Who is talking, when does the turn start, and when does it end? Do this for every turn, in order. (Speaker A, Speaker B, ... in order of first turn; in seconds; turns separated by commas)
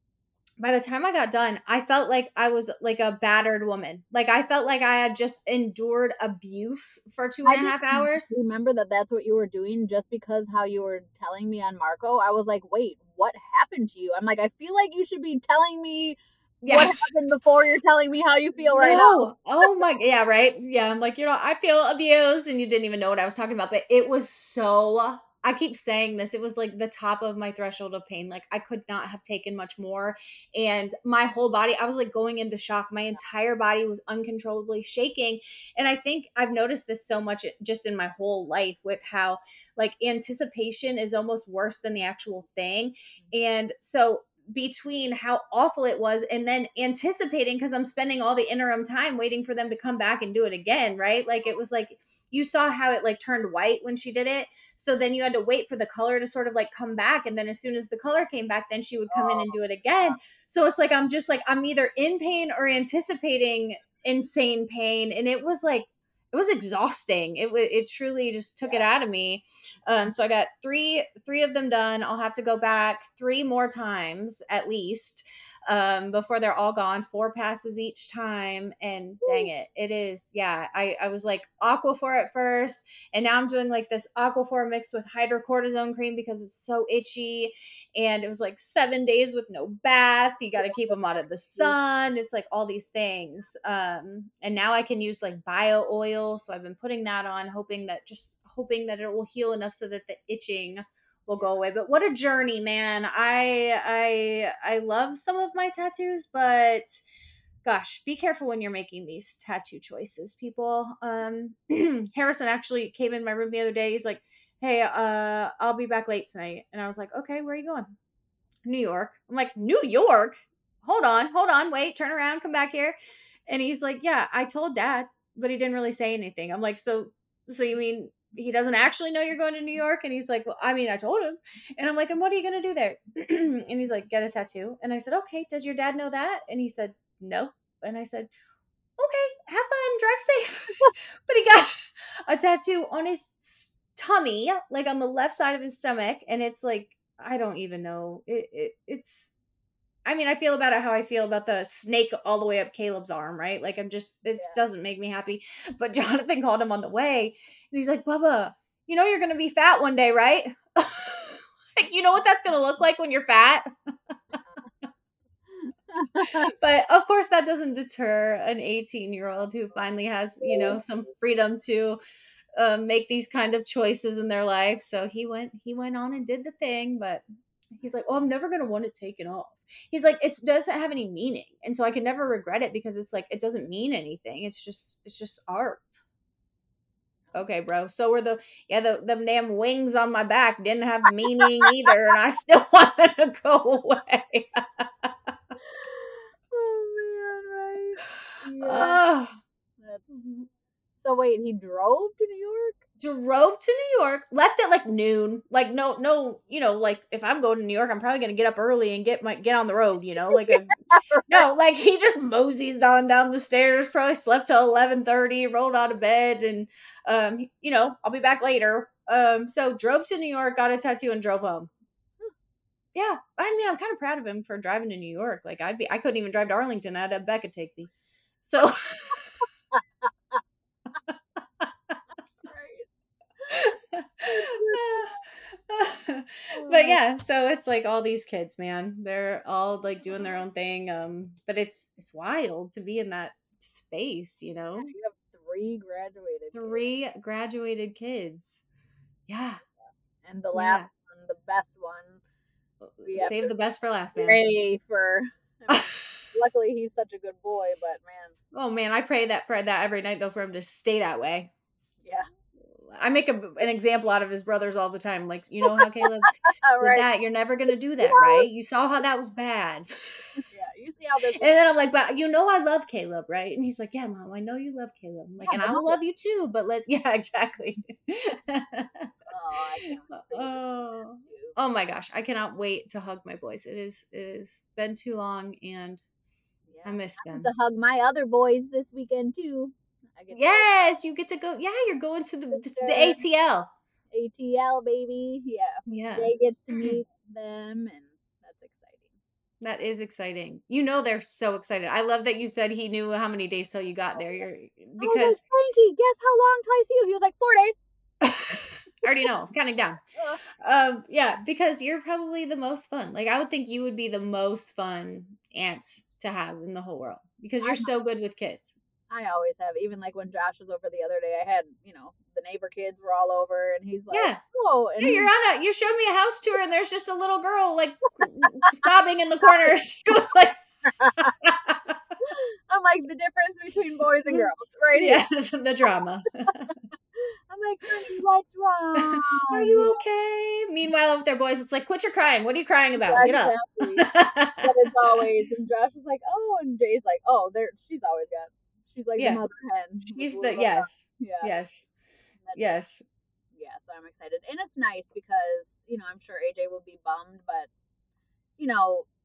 Speaker A: 0.6-8.3, Speaker B: 7.4-19.2, Speaker A: 16.6-16.9, Speaker A: 18.7-107.0, Speaker B: 59.1-60.2, Speaker B: 90.6-90.9, Speaker A: 107.6-117.9, Speaker A: 118.6-122.9, Speaker A: 123.5-138.3, Speaker A: 139.0-149.3, Speaker A: 150.0-163.7, Speaker B: 165.5-166.5, Speaker A: 166.2-172.0, Speaker B: 170.5-170.7, Speaker A: 172.6-177.2, Speaker A: 177.8-186.0, Speaker A: 187.3-195.1, Speaker B: 191.4-191.7, Speaker B: 195.6-199.0, Speaker A: 198.6-199.4, Speaker B: 199.8-200.5, Speaker B: 201.0-202.8, Speaker A: 203.0-221.7, Speaker B: 210.3-211.4, Speaker A: 222.9-229.2, Speaker B: 229.7-230.1, Speaker B: 232.4-232.9, Speaker B: 233.4-233.7, Speaker A: 233.5-244.9, Speaker B: 234.2-235.1, Speaker B: 236.5-237.0, Speaker B: 244.8-246.9, Speaker A: 246.5-248.6, Speaker A: 249.3-249.6, Speaker B: 250.2-252.2, Speaker A: 250.6-250.9, Speaker A: 252.8-254.4, Speaker B: 253.0-253.5, Speaker B: 254.2-258.3, Speaker A: 255.7-256.1, Speaker A: 258.5-261.5, Speaker B: 262.0-262.3, Speaker A: 262.8-269.9, Speaker B: 265.6-267.1, Speaker B: 268.0-268.5, Speaker B: 270.5-271.6, Speaker A: 271.4-279.1, Speaker B: 275.4-276.0, Speaker B: 279.3-281.6, Speaker A: 280.0-286.0, Speaker B: 286.7-290.7, Speaker A: 286.9-287.5, Speaker A: 290.3-293.7, Speaker B: 292.5-293.2, Speaker B: 294.1-299.1, Speaker A: 295.9-296.9, Speaker A: 299.6-305.4, Speaker B: 304.2-304.4, Speaker B: 305.0-307.8, Speaker A: 308.2-310.0, Speaker A: 310.5-318.7, Speaker B: 317.6-317.9, Speaker B: 319.1-325.3, Speaker A: 324.1-324.4, Speaker A: 325.0-330.6, Speaker B: 330.8-331.3, Speaker A: 331.4-332.0, Speaker B: 332.2-335.2, Speaker A: 334.3-336.7, Speaker B: 337.1-340.0, Speaker A: 339.1-345.2, Speaker B: 342.9-344.1, Speaker B: 344.6-351.5, Speaker A: 350.1-351.9, Speaker B: 352.4-352.8, Speaker A: 352.5-353.0, Speaker B: 353.5-357.7, Speaker B: 358.6-359.1